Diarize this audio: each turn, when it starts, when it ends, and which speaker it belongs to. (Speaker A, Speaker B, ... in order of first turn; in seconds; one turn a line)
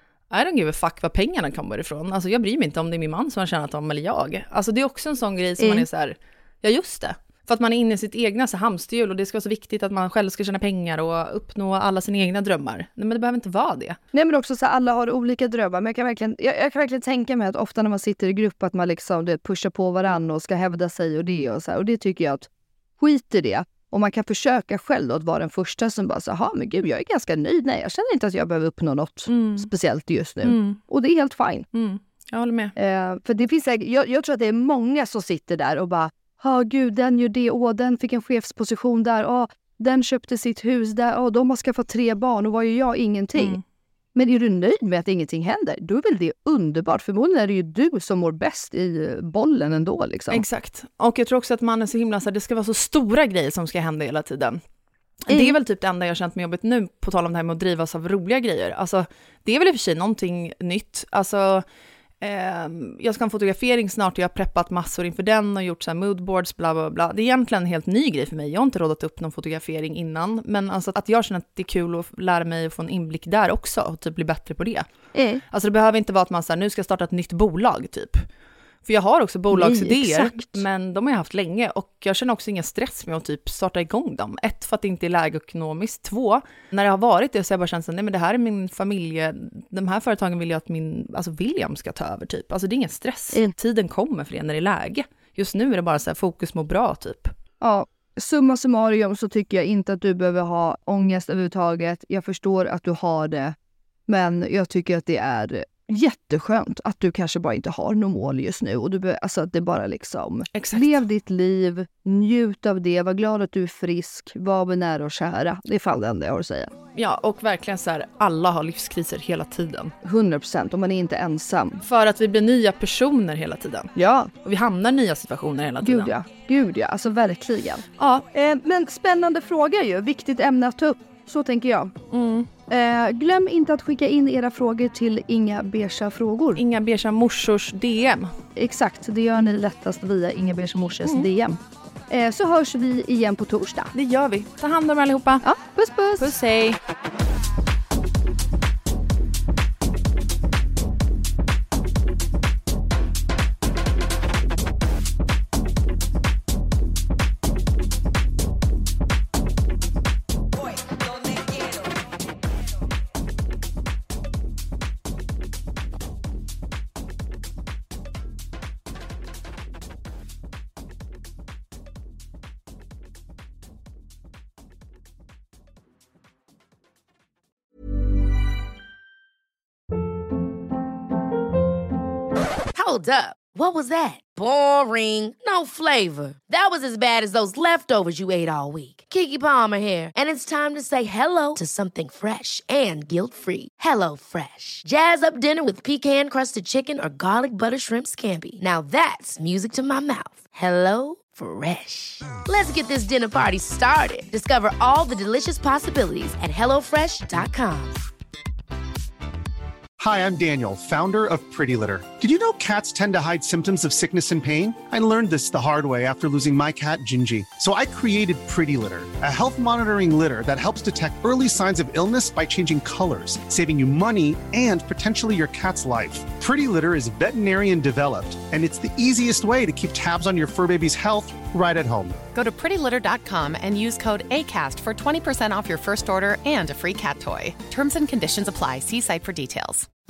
Speaker A: 0.3-14.0
Speaker B: 5.6-5.9
Speaker B: 14.1-22.5
Speaker B: 23.0-31.7
Speaker A: 29.3-29.7
Speaker A: 30.4-30.8
Speaker A: 31.7-32.7
Speaker B: 32.8-43.6
Speaker A: 43.4-43.6
Speaker B: 44.1-50.5
Speaker A: 50.3-54.6
Speaker A: 55.3-61.6
Speaker B: 55.3-55.6
Speaker A: 62.2-74.9
Speaker A: 75.5-78.2
Speaker A: 78.8-97.3
Speaker B: 79.6-80.3
Speaker B: 97.6-103.5
Speaker B: 104.1-116.7
Speaker A: 110.5-111.0
Speaker A: 117.0-119.9
Speaker B: 120.0-121.8
Speaker A: 121.8-123.9
Speaker B: 124.0-124.3
Speaker A: 124.4-126.1
Speaker B: 125.8-131.9
Speaker A: 132.1-132.5
Speaker B: 132.7-136.6
Speaker A: 136.6-138.3
Speaker B: 138.6-141.6
Speaker B: 142.1-143.9
Speaker A: 143.9-145.5
Speaker B: 145.4-146.3
Speaker A: 146.2-146.8
Speaker C: 182.8-208.0
Speaker D: 210.0-232.2
Speaker E: 232.3-239.9